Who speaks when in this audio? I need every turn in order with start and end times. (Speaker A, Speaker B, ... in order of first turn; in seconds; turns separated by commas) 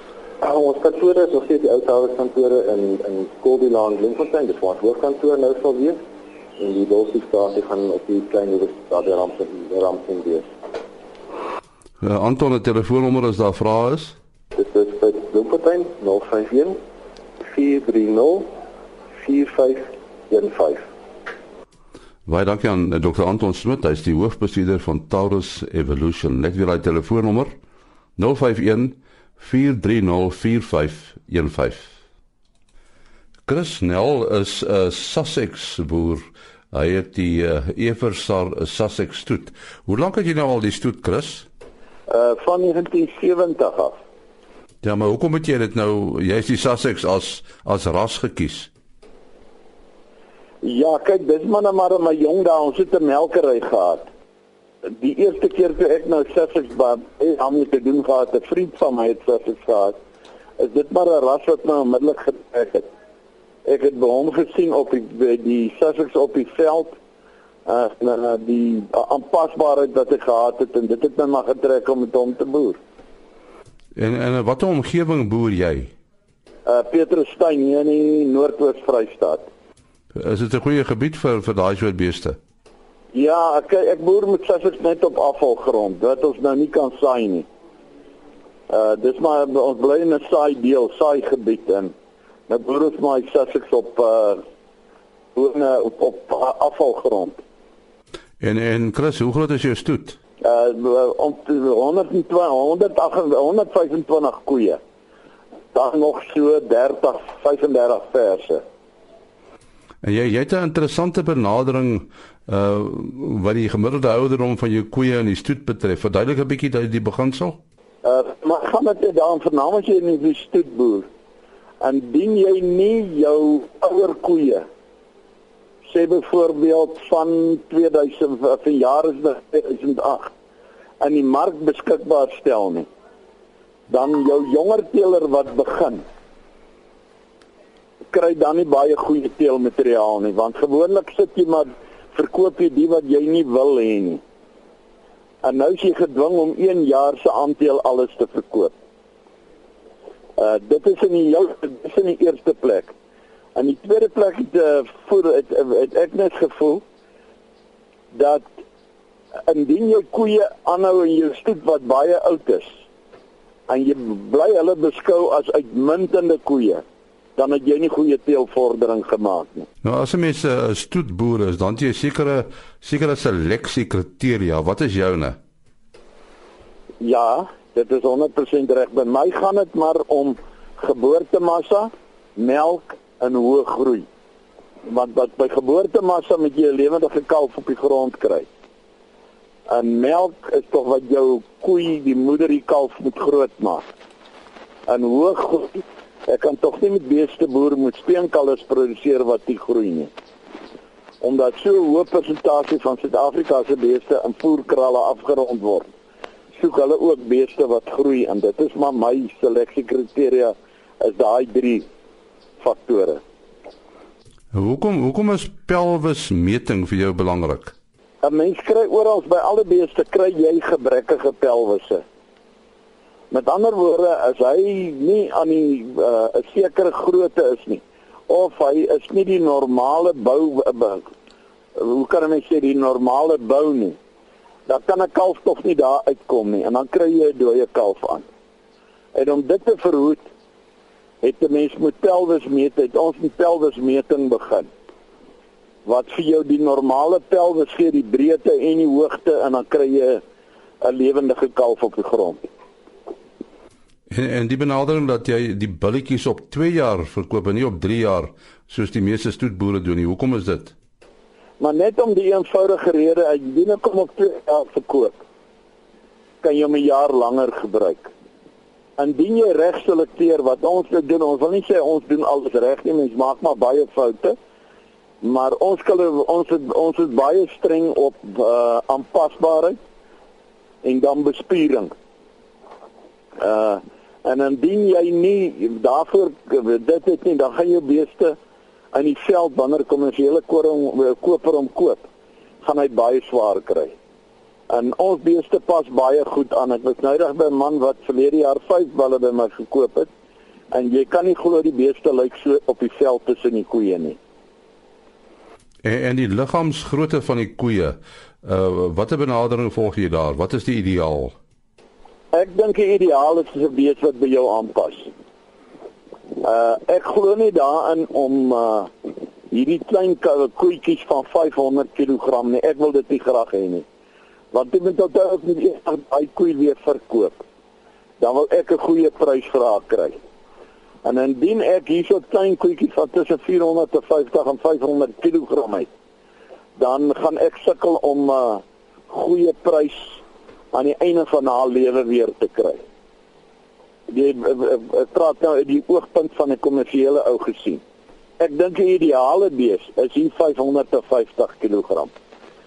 Speaker A: 0.4-6.0, Speaker A: 6.6-10.5, Speaker B: 12.0-14.2, Speaker A: 14.5-16.8, Speaker A: 17.4-18.5, Speaker A: 19.2-20.8, Speaker B: 22.2-27.5, Speaker B: 28.2-31.9, Speaker B: 33.5-41.5, Speaker C: 42.1-44.0, Speaker B: 44.8-48.7, Speaker C: 50.6-54.1, Speaker C: 54.9-60.0, Speaker C: 60.6-62.9, Speaker C: 63.6-66.9, Speaker C: 67.7-72.8, Speaker B: 74.0-75.9, Speaker C: 76.7-79.4, Speaker B: 80.1-82.4, Speaker C: 83.1-87.5, Speaker C: 88.7-91.9, Speaker C: 92.5-94.4, Speaker C: 95.3-97.4, Speaker B: 98.4-100.2, Speaker C: 100.4-104.8, Speaker C: 105.7-108.6, Speaker B: 110.0-117.6, Speaker C: 118.0-121.1, Speaker C: 121.8-124.6, Speaker C: 125.8-130.3, Speaker C: 131.0-132.9, Speaker C: 133.9-136.0, Speaker C: 138.1-144.2, Speaker C: 145.4-148.7, Speaker C: 150.4-152.9, Speaker C: 153.5-156.8, Speaker C: 158.1-158.4, Speaker C: 159.5-162.7, Speaker C: 163.7-166.8, Speaker C: 167.4-169.7, Speaker B: 169.8-175.3, Speaker C: 177.0-184.1, Speaker C: 184.8-188.5, Speaker C: 189.7-193.9, Speaker C: 194.9-200.1, Speaker C: 201.2-205.9, Speaker C: 206.5-211.8, Speaker C: 212.6-213.2, Speaker B: 214.5-217.7, Speaker C: 218.2-222.0, Speaker C: 223.3-231.0, Speaker C: 231.7-234.0, Speaker C: 234.7-238.2, Speaker C: 239.1-240.2, Speaker C: 241.2-244.7, Speaker C: 245.8-250.2, Speaker C: 250.8-252.5, Speaker B: 254.1-260.7, Speaker C: 261.6-265.1, Speaker C: 266.4-268.1, Speaker C: 269.0-274.3, Speaker C: 275.2-279.8, Speaker C: 280.8-281.9, Speaker C: 283.4-288.4, Speaker C: 288.9-292.0, Speaker C: 292.6-293.9, Speaker C: 294.7-300.1, Speaker C: 300.7-304.2, Speaker B: 305.8-311.3, Speaker C: 312.3-315.1, Speaker C: 316.4-318.9, Speaker C: 319.5-323.8, Speaker C: 324.5-327.4, Speaker C: 328.2-330.2, Speaker C: 331.0-335.9, Speaker C: 336.8-340.2, Speaker C: 340.7-342.8, Speaker C: 344.1-347.8, Speaker C: 348.4-352.1